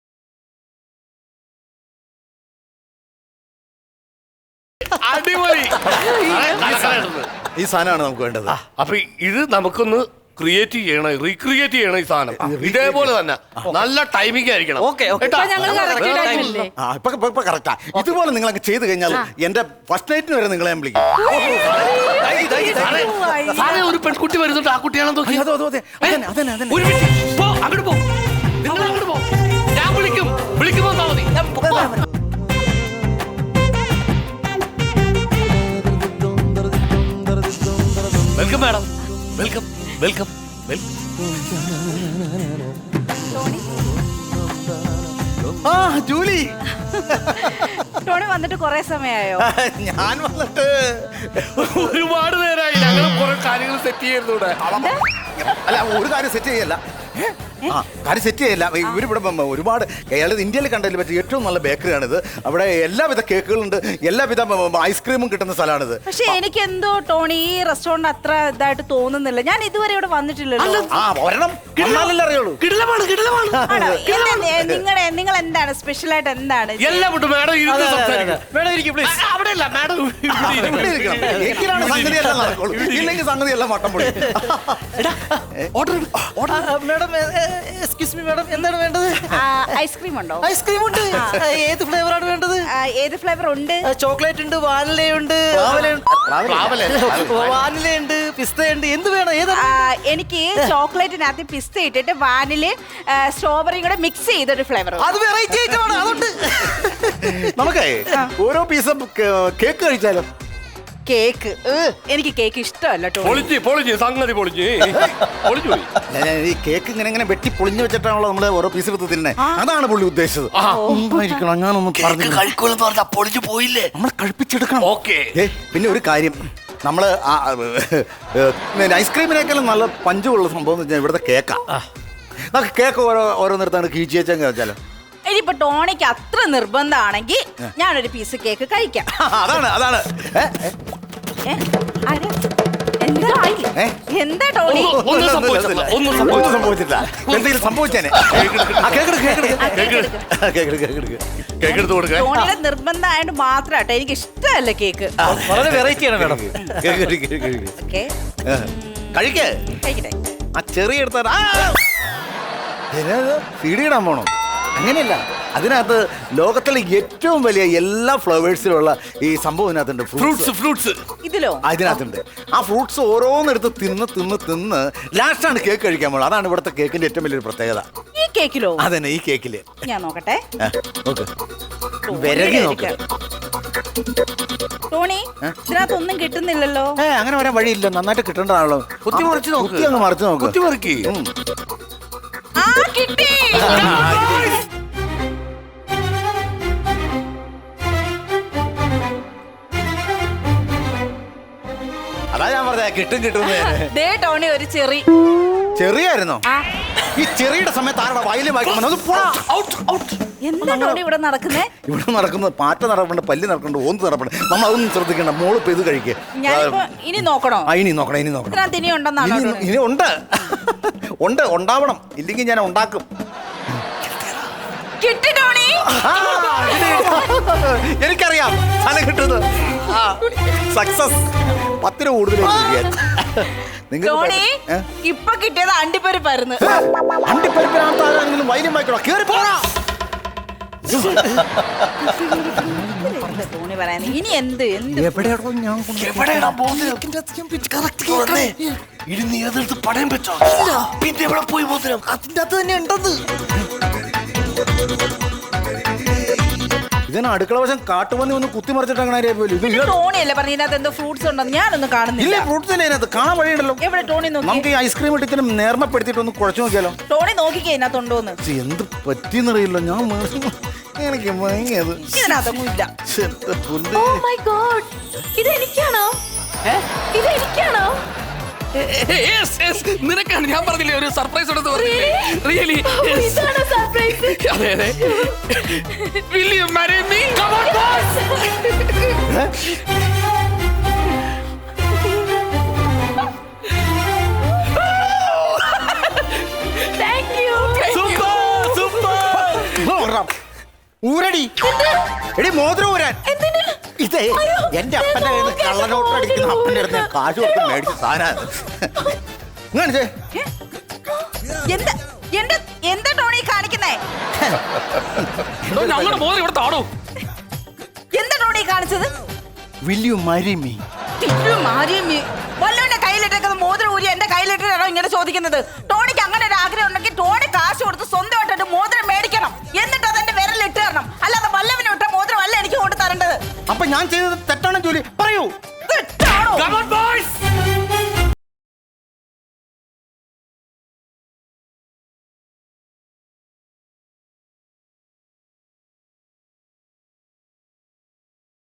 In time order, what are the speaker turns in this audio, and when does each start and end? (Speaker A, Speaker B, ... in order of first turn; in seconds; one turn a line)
Speaker A: 4.9-7.3
Speaker B: 6.0-7.0
Speaker C: 7.5-8.5
Speaker A: 8.8-16.6
Speaker C: 12.3-13.1
Speaker B: 14.8-16.6
Speaker D: 15.2-16.7
Speaker C: 16.8-21.5
Speaker D: 21.2-23.9
Speaker B: 21.3-23.7
Speaker A: 21.6-22.0
Speaker A: 22.7-25.4
Speaker C: 25.2-27.0
Speaker A: 26.0-28.0
Speaker A: 28.6-32.0
Speaker C: 31.5-32.0
Speaker C: 37.5-37.9
Speaker A: 38.3-40.9
Speaker D: 43.3-43.7
Speaker C: 45.6-47.6
Speaker D: 47.3-49.5
Speaker C: 49.4-51.8
Speaker A: 51.5-54.6
Speaker C: 54.6-66.4
Speaker D: 54.7-55.0
Speaker D: 66.1-70.9
Speaker A: 70.6-71.0
Speaker C: 70.9-72.6
Speaker A: 71.7-74.4
Speaker C: 73.5-74.8
Speaker D: 73.7-77.1
Speaker A: 76.8-78.5
Speaker B: 77.7-79.2
Speaker A: 79.0-83.2
Speaker C: 80.3-85.7
Speaker B: 80.5-82.5
Speaker B: 84.0-85.2
Speaker B: 85.8-89.3
Speaker C: 86.2-86.5
Speaker D: 89.3-90.5
Speaker B: 90.4-92.7
Speaker D: 91.1-91.4
Speaker D: 92.8-93.8
Speaker B: 93.9-96.0
Speaker C: 95.5-97.4
Speaker A: 96.5-97.6
Speaker B: 96.8-99.9
Speaker D: 99.5-105.1
Speaker B: 105.0-107.5
Speaker C: 105.5-105.8
Speaker C: 107.2-110.3
Speaker D: 111.0-113.5
Speaker A: 113.2-115.9
Speaker C: 116.1-122.5
Speaker D: 119.4-119.7
Speaker A: 120.5-120.9
Speaker D: 120.7-121.4
Speaker A: 121.9-123.9
Speaker C: 123.9-131.6
Speaker A: 124.8-125.3
Speaker C: 132.5-134.8
Speaker D: 135.2-139.1
Speaker C: 139.2-140.8
Speaker D: 141.5-142.3
Speaker D: 143.0-145.0
Speaker A: 144.7-146.6
Speaker C: 144.8-151.2
Speaker A: 147.2-150.1
Speaker D: 149.6-150.2
Speaker A: 151.6-152.5
Speaker D: 151.6-155.2
Speaker C: 155.2-157.7
Speaker B: 155.2-156.6
Speaker D: 157.8-158.1
Speaker C: 158.5-159.6
Speaker D: 158.8-160.2
Speaker C: 160.6-161.8
Speaker C: 162.9-170.5
Speaker A: 170.2-171.0
Speaker D: 171.2-172.0
Speaker C: 171.6-177.8
Speaker D: 178.1-178.8
Speaker C: 178.8-179.8
Speaker D: 179.8-180.4
Speaker C: 180.6-181.3
Speaker D: 182.0-183.0
Speaker C: 182.1-183.0
Speaker D: 184.9-187.0
Speaker C: 185.4-185.8
Speaker C: 187.0-191.3
Speaker A: 189.0-191.1
Speaker D: 192.6-194.1
Speaker C: 193.6-194.6
Speaker A: 193.7-194.1
Speaker C: 202.3-203.9
Speaker D: 203.4-205.1
Speaker C: 205.8-206.4
Speaker C: 207.1-209.4
Speaker D: 209.1-209.4
Speaker A: 209.5-210.2
Speaker D: 210.4-211.7
Speaker C: 210.6-211.0
Speaker C: 211.8-216.9
Speaker D: 216.4-217.7
Speaker C: 217.6-218.7
Speaker D: 218.5-219.7
Speaker C: 219.2-223.1
Speaker C: 223.8-224.4
Speaker D: 225.0-227.3
Speaker C: 225.8-234.8
Speaker D: 229.9-230.4
Speaker D: 232.4-232.9
Speaker D: 234.0-236.6
Speaker C: 236.6-239.7
Speaker C: 240.9-243.5
Speaker A: 241.0-241.3
Speaker D: 242.4-245.3
Speaker C: 244.9-248.7
Speaker A: 245.9-247.0
Speaker A: 248.0-248.5
Speaker A: 249.1-252.1
Speaker C: 250.4-250.9
Speaker C: 252.0-253.2
Speaker C: 257.1-260.0
Speaker D: 259.6-262.5
Speaker C: 262.2-263.8
Speaker D: 263.8-264.7
Speaker C: 264.4-267.0
Speaker D: 267.1-268.4
Speaker C: 268.4-272.3
Speaker D: 272.1-272.9
Speaker C: 273.1-274.2
Speaker E: 273.9-276.2
Speaker E: 276.9-278.0
Speaker F: 278.7-288.1
Speaker E: 281.7-285.3
Speaker E: 287.3-288.6
Speaker C: 289.3-289.6
Speaker E: 296.8-299.8
Speaker C: 297.9-300.3
Speaker C: 301.0-301.6
Speaker C: 302.4-303.2
Speaker E: 303.3-303.8
Speaker C: 303.9-309.1
Speaker E: 304.6-307.1
Speaker C: 309.7-310.1
Speaker D: 311.7-314.0
Speaker C: 315.2-316.3
Speaker F: 315.7-316.9
Speaker D: 318.1-319.1
Speaker C: 319.8-320.8
Speaker D: 321.2-333.4
Speaker C: 333.7-335.5
Speaker D: 335.9-336.8
Speaker A: 336.3-337.3